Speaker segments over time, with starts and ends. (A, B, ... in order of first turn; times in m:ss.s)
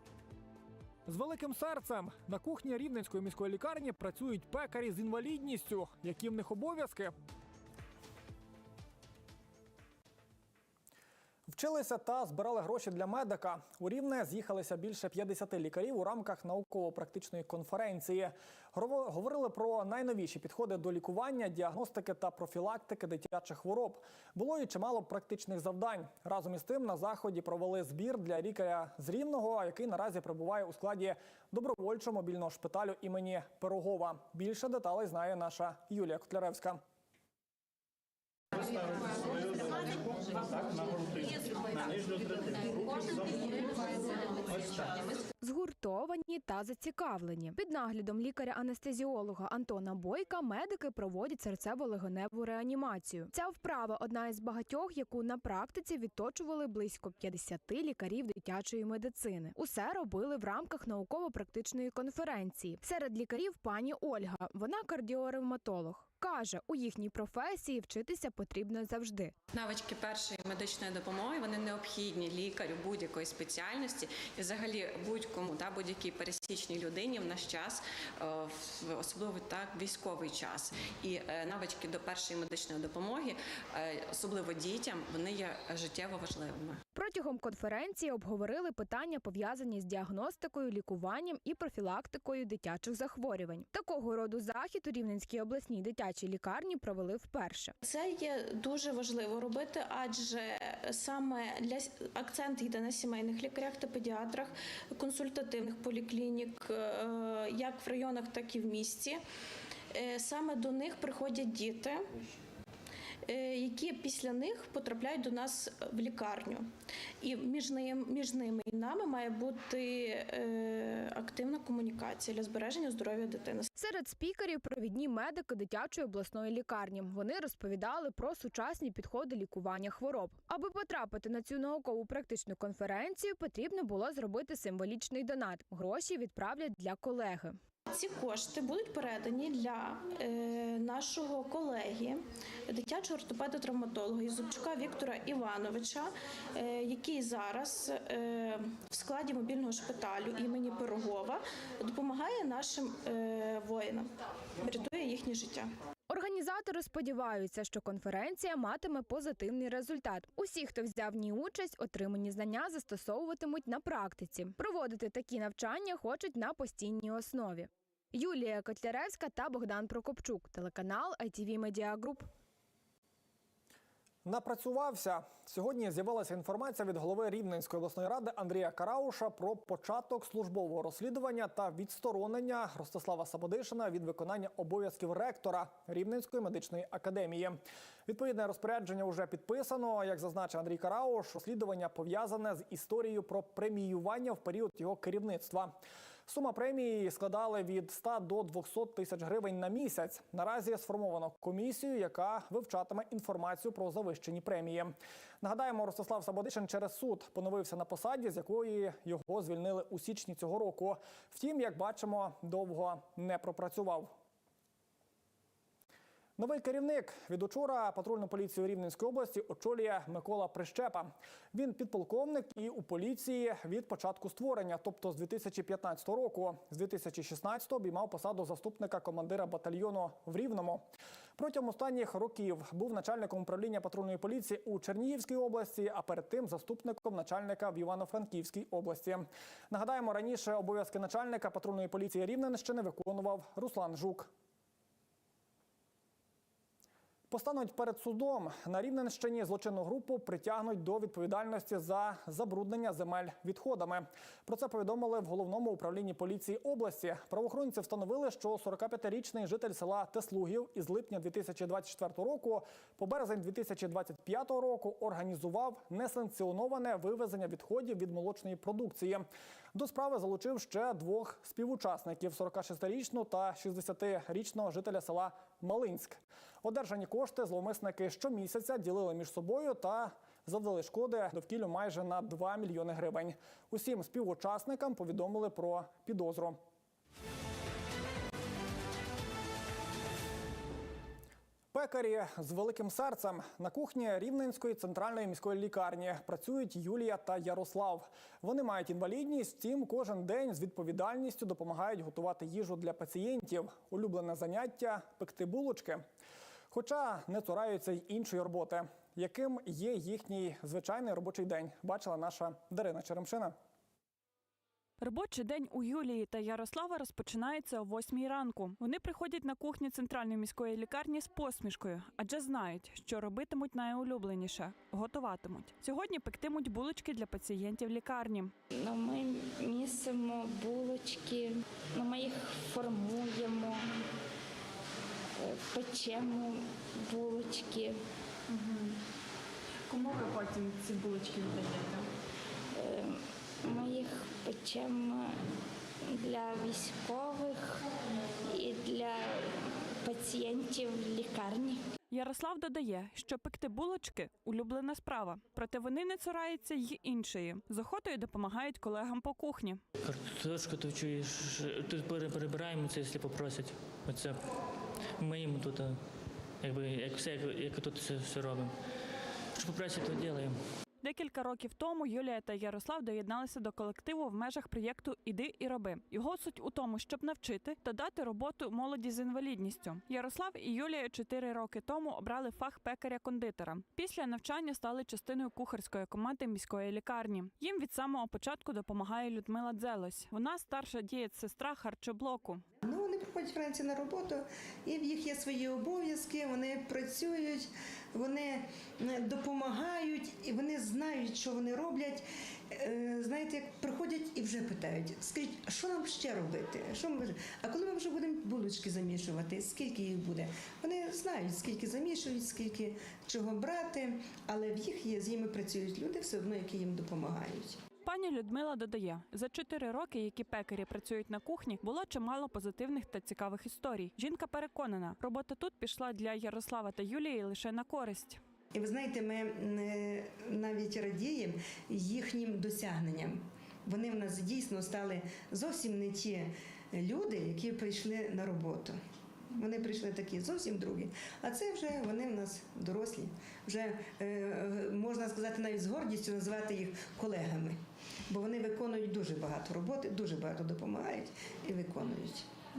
0:01.0-0:07.1 A
0:11.5-0:36.8 A
0:45.5-1:09.3 B
1:09.5-1:26.8 C
1:27.0-1:37.6 B
1:37.8-1:49.2 D
1:49.9-1:52.0 D
1:53.2-2:03.7 D
2:03.8-2:17.5 B
2:17.9-2:35.7 D
2:36.1-2:47.6 B
2:48.2-2:52.2 B
2:54.2-3:34.1 A
3:36.4-4:04.3 A
4:07.3-4:46.6 A
4:51.7-5:06.0 A
5:06.7-5:13.5 A
5:15.0-5:28.5 E
5:28.7-5:33.9 F
5:35.4-5:38.0 F
5:40.0-5:41.4 E
5:42.7-5:45.4 F
5:46.0-5:47.9 F
5:48.5-5:51.8 F
5:52.1-5:59.8 E
6:00.0-6:01.3 F
6:00.0-6:04.4 G
6:02.0-6:03.5 F
6:05.2-6:06.0 G
6:05.2-6:05.7 F
6:06.6-6:08.7 G
6:06.6-6:08.6 F
6:09.6-6:10.6 G
6:09.7-6:10.5 F
6:11.0-6:32.6 E
6:32.8-6:57.8 H
6:58.0-7:08.4 E
7:08.7-7:19.0 H
7:19.5-7:32.5 H